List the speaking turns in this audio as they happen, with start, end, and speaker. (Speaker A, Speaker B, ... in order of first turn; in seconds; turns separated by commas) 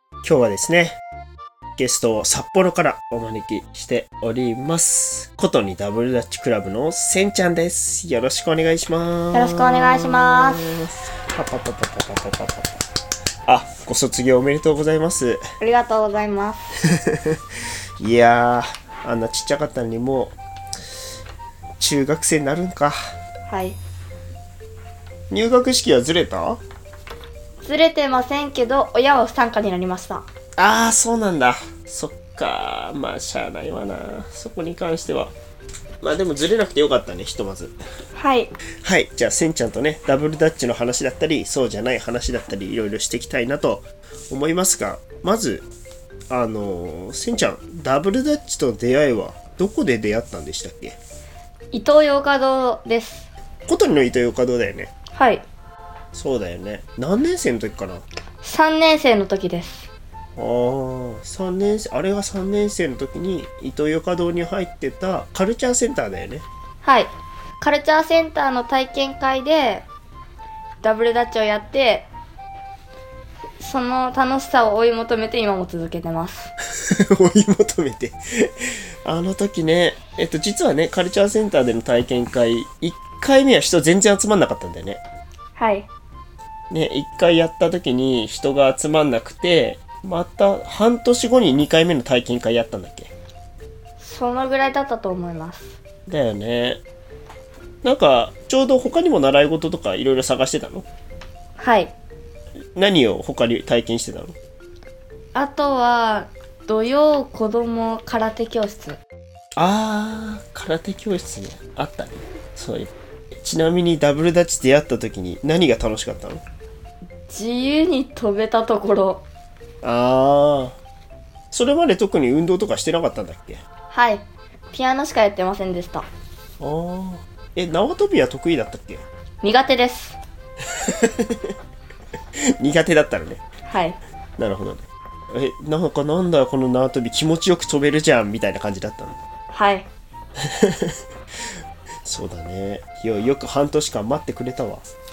Speaker A: 0.2-1.0, Speaker A: 1.8-12.8, Speaker B: 9.3-10.7, Speaker A: 13.5-15.4, Speaker B: 15.6-16.7, Speaker A: 16.9-17.4, Speaker A: 18.0-20.4, Speaker A: 21.8-23.0, Speaker B: 23.5-23.8, Speaker A: 25.3-26.6, Speaker B: 27.6-30.3, Speaker A: 30.6-35.3, Speaker A: 36.0-37.8, Speaker B: 38.2-38.5, Speaker A: 38.8-45.7, Speaker A: 46.3-51.0, Speaker B: 51.7-53.3, Speaker A: 53.7-54.9, Speaker B: 55.1-55.4, Speaker A: 56.1-58.0, Speaker B: 58.4-59.9, Speaker A: 60.4-66.5, Speaker B: 66.8-67.1, Speaker B: 67.6-69.9, Speaker B: 70.8-72.1, Speaker B: 73.6-76.5, Speaker A: 76.8-85.0, Speaker B: 85.6-85.9, Speaker A: 86.7-93.1, Speaker B: 94.0-95.8, Speaker A: 96.1-96.8, Speaker A: 97.8-100.9, Speaker B: 101.6-101.9, Speaker A: 102.8-104.4, Speaker B: 105.3-109.0, Speaker A: 109.6-116.4, Speaker B: 117.3-119.2, Speaker A: 119.8-120.8, Speaker A: 121.5-123.6, Speaker B: 123.9-126.1, Speaker A: 126.6-129.0, Speaker B: 129.4-130.2, Speaker A: 130.7-131.6, Speaker A: 132.4-133.4, Speaker B: 133.7-134.0, Speaker A: 134.4-139.2, Speaker B: 139.5-139.9, Speaker A: 140.4-141.0, Speaker A: 142.1-144.9